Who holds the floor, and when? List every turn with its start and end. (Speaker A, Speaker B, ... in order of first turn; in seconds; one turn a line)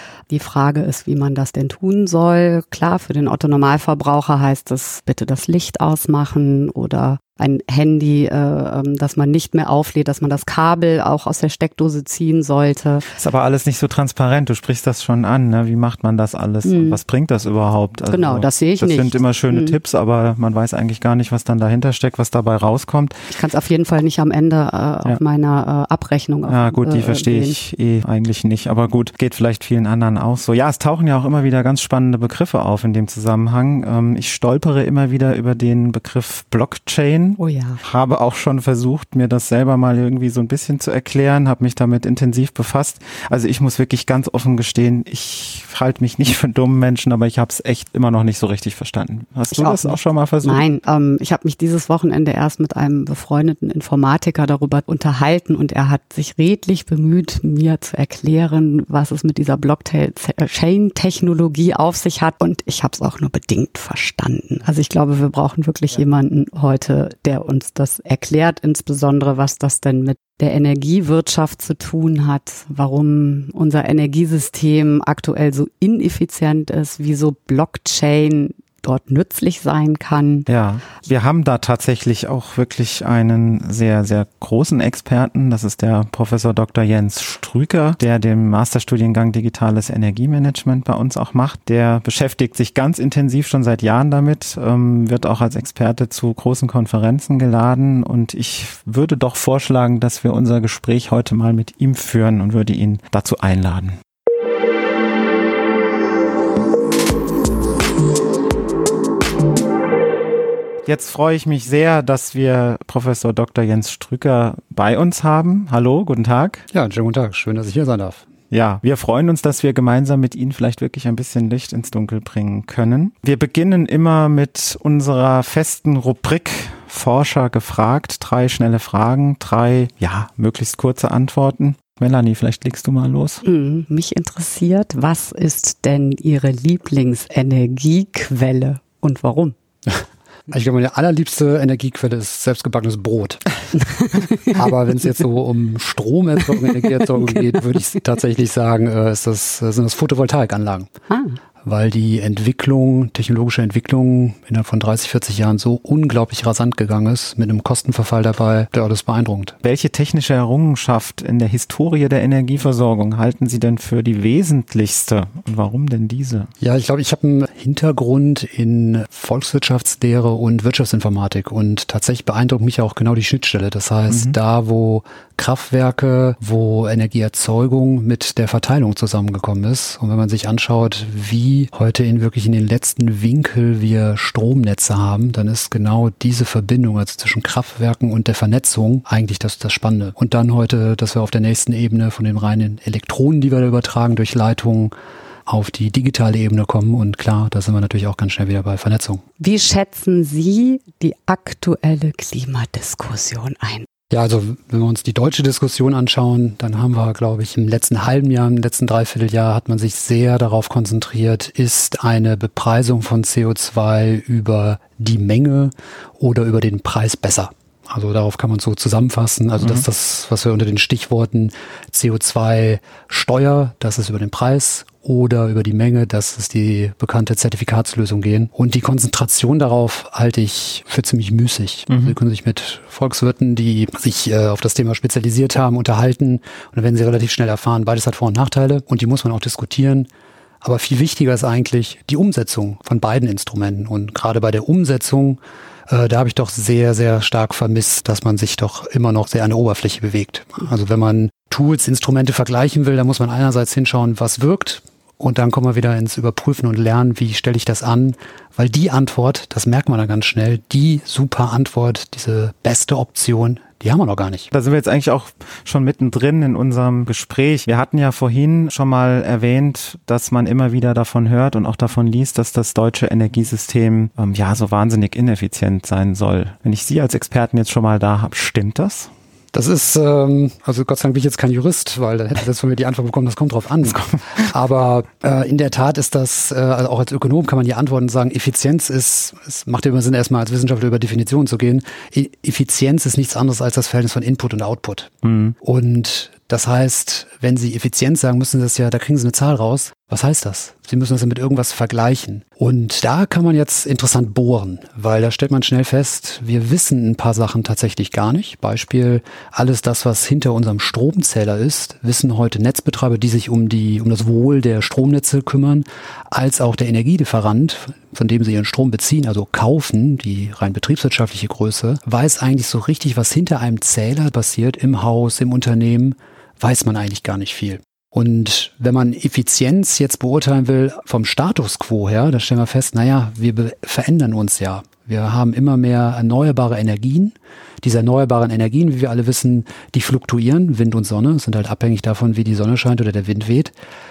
Speaker A: 0.3-13.1
Speaker B: 13.2-23.2
Speaker A: 16.6-17.0
Speaker A: 18.1-19.8
Speaker A: 23.3-27.6
Speaker B: 26.5-50.6
Speaker A: 37.4-37.8
Speaker A: 49.5-80.5
Speaker B: 80.5-104.0
Speaker B: 110.8-116.7
Speaker C: 116.7-118.3
Speaker B: 118.5-133.4
Speaker A: 133.4-139.6
Speaker C: 139.9-143.4
Speaker A: 143.9-144.6
Speaker C: 144.5-150.9
Speaker A: 151.1-151.4
Speaker C: 151.6-159.6
Speaker B: 159.6-166.5
Speaker C: 166.6-194.9
Speaker B: 174.1-174.4
Speaker C: 195.5-199.2
Speaker A: 199.4-203.9
Speaker C: 204.1-240.1
Speaker B: 219.6-219.8
Speaker B: 231.9-232.2
Speaker C: 240.6-264.5
Speaker B: 264.5-279.1
Speaker C: 279.5-343.7
Speaker B: 283.9-284.2
Speaker B: 295.2-295.6